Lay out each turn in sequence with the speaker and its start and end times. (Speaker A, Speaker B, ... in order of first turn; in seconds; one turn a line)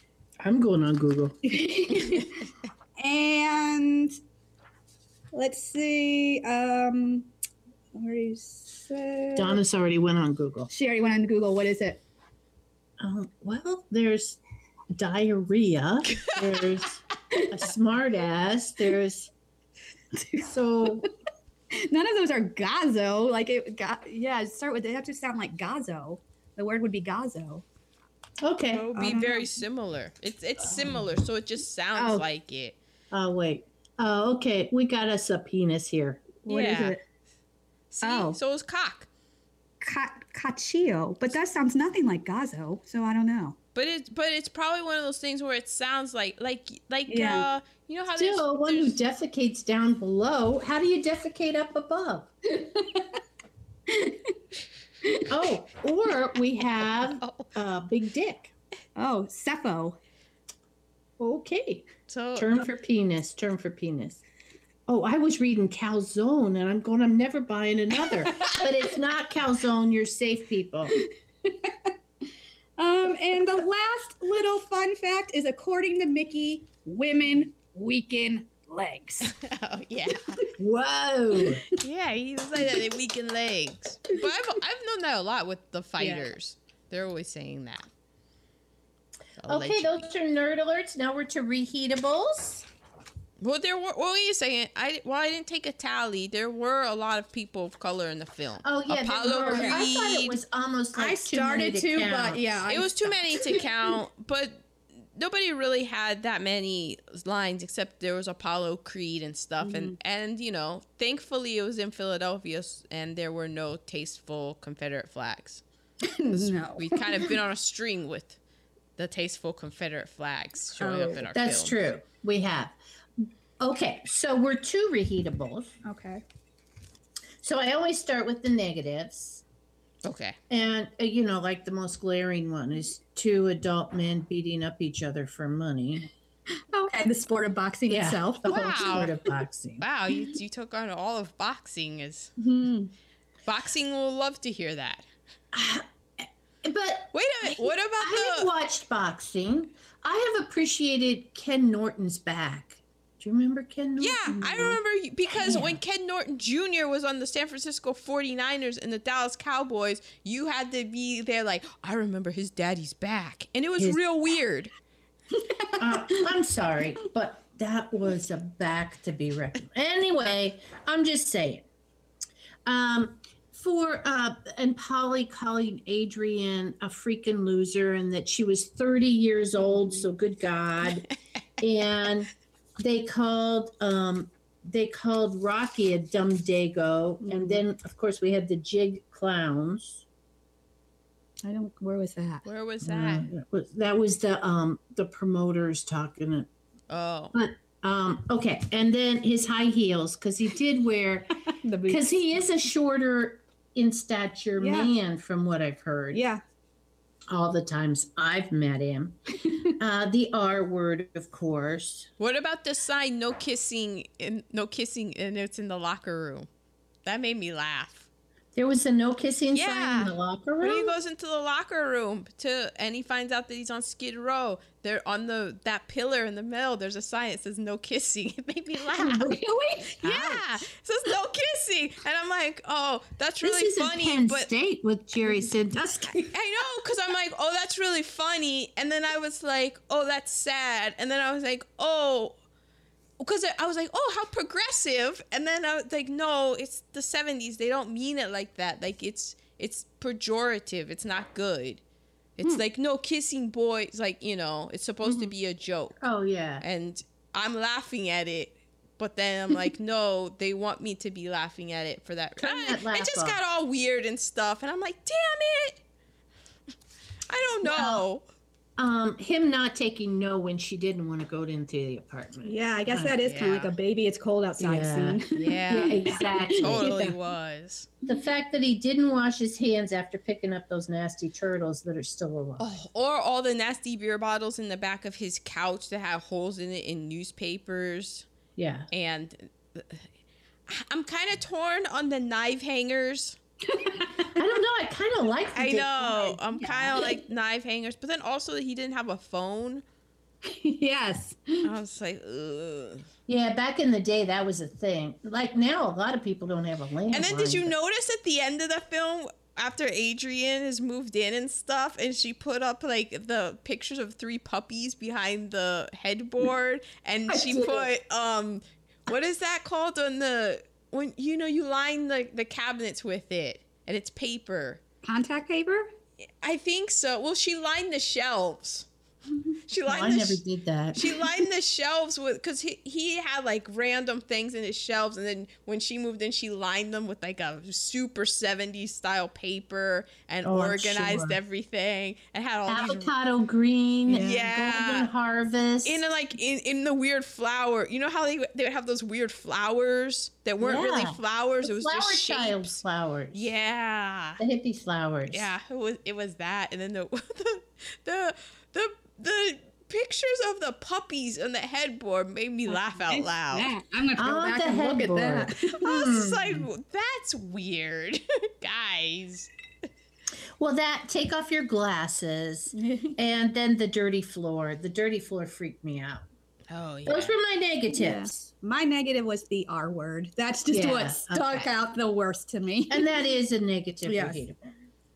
Speaker A: 0.4-1.4
Speaker B: 1.4-4.2
Speaker B: 5.3-7.3
Speaker B: 7.9-9.6
Speaker A: 9.3-10.7
Speaker B: 10.7-12.0
Speaker A: 13.0-14.4
Speaker A: 14.9-19.3
Speaker B: 20.1-21.1
Speaker A: 20.4-21.1
Speaker B: 21.7-27.6
Speaker A: 28.4-29.0
Speaker C: 28.7-32.8
Speaker B: 28.9-29.5
Speaker A: 31.9-32.2
Speaker A: 33.1-36.4
Speaker B: 36.4-37.0
Speaker C: 36.5-37.0
Speaker C: 37.9-39.1
Speaker B: 38.0-38.4
Speaker B: 39.8-43.6
Speaker C: 43.7-49.0
Speaker B: 47.1-47.4
Speaker A: 48.1-52.3
Speaker B: 52.5-53.2
Speaker B: 53.9-54.3
Speaker B: 55.0-55.5
Speaker A: 55.3-58.5
Speaker C: 57.2-57.5
Speaker B: 59.0-60.0
Speaker A: 61.2-64.2
Speaker C: 62.1-62.6
Speaker A: 64.9-71.0
Speaker B: 68.0-68.9
Speaker B: 70.9-71.9
Speaker B: 72.8-79.3
Speaker C: 79.2-80.4
Speaker A: 80.6-81.7
Speaker B: 81.4-81.7
Speaker C: 81.8-87.9
Speaker B: 86.0-86.3
Speaker C: 89.4-90.0
Speaker A: 89.4-92.7
Speaker C: 93.4-100.4
Speaker A: 98.6-103.2
Speaker B: 99.4-99.9
Speaker B: 100.9-103.6
Speaker C: 102.7-115.6
Speaker B: 109.6-109.9
Speaker B: 116.0-117.3
Speaker C: 116.3-118.4
Speaker C: 119.0-121.7
Speaker B: 120.8-121.2
Speaker A: 121.3-125.7
Speaker B: 125.8-126.2
Speaker A: 127.4-129.4
Speaker C: 130.0-130.4
Speaker A: 130.5-136.1
Speaker B: 136.7-139.0
Speaker A: 137.9-139.8
Speaker C: 138.4-139.2
Speaker C: 139.8-142.3
Speaker B: 142.4-142.9
Speaker C: 143.5-145.1
Speaker A: 145.5-154.8
Speaker C: 147.1-148.5
Speaker C: 154.0-164.7
Speaker A: 155.4-155.8
Speaker B: 165.3-166.3
Speaker A: 165.8-171.7
Speaker A: 172.6-181.1
Speaker B: 179.6-180.1
Speaker A: 181.6-190.0
Speaker B: 187.2-187.6
Speaker B: 191.4-192.4
Speaker C: 192.4-193.3
Speaker A: 192.8-196.5
Speaker C: 196.9-197.3
Speaker A: 197.3-206.2
Speaker B: 201.6-202.1
Speaker B: 204.6-204.9
Speaker B: 206.1-206.4
Speaker A: 207.3-212.1
Speaker B: 209.4-209.7
Speaker C: 212.2-216.5
Speaker C: 217.0-218.1
Speaker A: 218.5-220.9
Speaker C: 219.5-229.3
Speaker B: 229.0-230.4
Speaker C: 230.0-234.5
Speaker A: 233.4-236.2
Speaker B: 235.8-236.3
Speaker C: 236.3-242.4
Speaker C: 243.2-251.8
Speaker C: 252.4-256.0
Speaker A: 255.0-255.3
Speaker A: 256.0-256.6
Speaker C: 256.6-265.8
Speaker A: 262.4-263.4
Speaker C: 267.3-268.2
Speaker A: 267.6-268.0
Speaker A: 268.8-273.1
Speaker B: 272.4-277.1
Speaker C: 273.2-273.7
Speaker A: 274.6-276.9
Speaker C: 275.3-277.9
Speaker A: 278.1-282.8
Speaker C: 282.6-288.2
Speaker A: 288.6-288.9
Speaker C: 288.9-290.1
Speaker C: 290.7-293.4
Speaker B: 293.7-294.4
Speaker A: 294.3-296.4
Speaker C: 295.5-299.8
Speaker B: 296.1-297.2
Speaker B: 300.4-301.7
Speaker C: 301.6-303.1
Speaker A: 303.3-307.7
Speaker C: 307.1-324.8
Speaker B: 317.3-317.9
Speaker B: 325.0-325.9
Speaker C: 326.4-328.9
Speaker C: 329.7-330.4
Speaker A: 329.8-331.4
Speaker C: 330.9-343.1
Speaker A: 340.4-341.4
Speaker A: 342.7-346.0
Speaker C: 344.1-345.1
Speaker C: 345.8-352.7
Speaker A: 350.6-353.5
Speaker C: 353.3-354.4
Speaker A: 354.4-355.5
Speaker C: 355.3-363.7
Speaker B: 362.7-366.1
Speaker A: 364.2-366.7
Speaker C: 365.7-369.5
Speaker A: 370.6-376.2
Speaker B: 372.8-373.2
Speaker C: 376.7-377.3
Speaker A: 377.1-378.5
Speaker B: 377.9-383.1
Speaker A: 380.7-381.7
Speaker A: 382.9-384.7
Speaker B: 384.1-384.4